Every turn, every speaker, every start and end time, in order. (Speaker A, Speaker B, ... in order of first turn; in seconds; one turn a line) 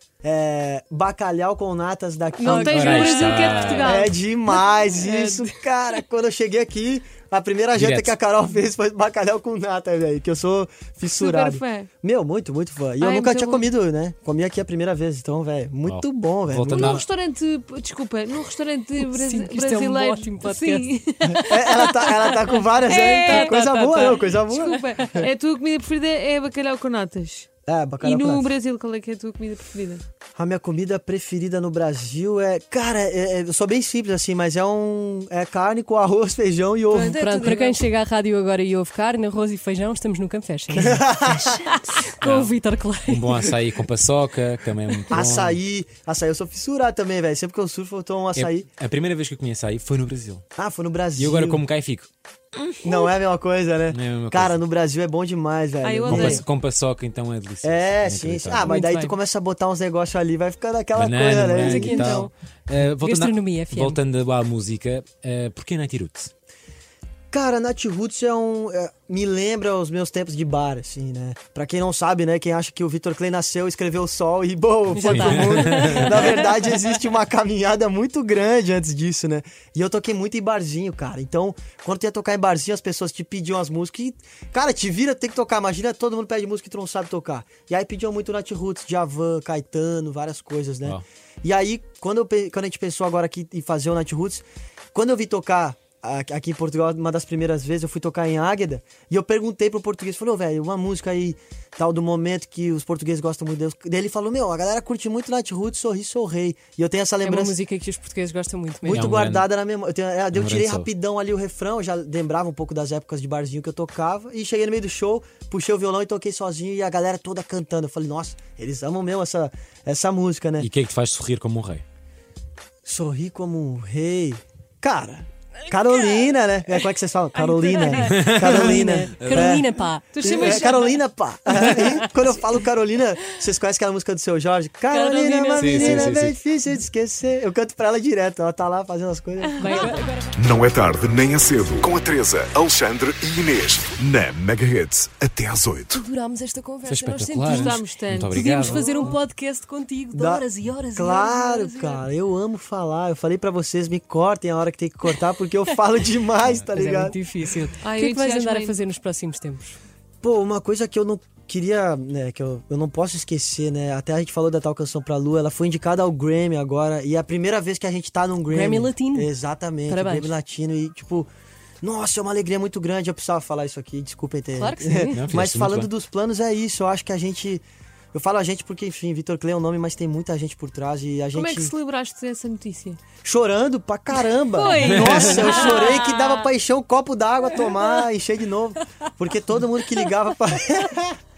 Speaker A: 0.2-3.0
Speaker B: 2.4-4.1
Speaker C: 2.4-3.9
Speaker D: 2.6-3.8
Speaker A: 3.8-17.0
Speaker C: 5.0-5.5
Speaker D: 7.8-8.1
Speaker B: 11.1-11.9
Speaker B: 13.0-13.7
Speaker D: 15.9-17.0
Speaker B: 16.7-21.5
Speaker C: 19.0-20.9
Speaker A: 21.3-24.8
Speaker C: 21.5-23.7
Speaker B: 22.9-27.5
Speaker A: 27.6-28.5
Speaker B: 28.0-30.0
Speaker A: 30.4-37.2
Speaker B: 36.9-37.8
Speaker C: 37.1-41.1
Speaker A: 40.7-41.6
Speaker C: 42.0-43.3
Speaker D: 42.2-42.5
Speaker D: 43.1-45.6
Speaker A: 45.1-48.6
Speaker D: 48.3-50.4
Speaker A: 50.5-51.6
Speaker D: 51.2-52.1
Speaker A: 52.8-56.4
Speaker D: 53.9-54.5
Speaker B: 55.8-56.4
Speaker D: 56.1-58.7
Speaker A: 57.6-62.3
Speaker C: 58.6-59.1
Speaker D: 60.9-61.8
Speaker C: 61.6-62.3
Speaker E: 61.8-62.3
Speaker D: 62.7-66.3
Speaker C: 63.0-64.0
Speaker A: 67.3-107.6
Speaker C: 74.9-76.5
Speaker E: 75.0-76.0
Speaker D: 75.3-75.5
Speaker C: 107.2-109.1
Speaker A: 108.8-120.7
Speaker D: 108.9-109.4
Speaker D: 110.3-110.9
Speaker D: 120.6-121.8
Speaker A: 122.8-129.7
Speaker C: 125.9-126.2
Speaker C: 127.3-130.6
Speaker D: 128.1-129.3
Speaker B: 130.1-131.0
Speaker A: 130.2-139.9
Speaker C: 131.5-132.1
Speaker C: 134.9-136.2
Speaker D: 135.6-136.3
Speaker E: 135.7-136.0
Speaker C: 139.6-140.4
Speaker B: 139.6-139.9
Speaker E: 140.4-145.9
Speaker C: 145.9-151.7
Speaker D: 146.9-148.8
Speaker B: 147.5-149.2
Speaker A: 150.1-157.2
Speaker B: 151.6-152.0
Speaker C: 156.7-159.8
Speaker B: 157.8-158.7
Speaker A: 160.2-171.3
Speaker C: 168.5-169.3
Speaker C: 169.8-170.3
Speaker A: 171.8-181.7
Speaker C: 174.6-175.2
Speaker E: 175.1-175.4
Speaker D: 175.3-175.8
Speaker B: 181.3-183.0
Speaker A: 183.2-191.2
Speaker B: 184.2-186.5
Speaker E: 185.1-185.5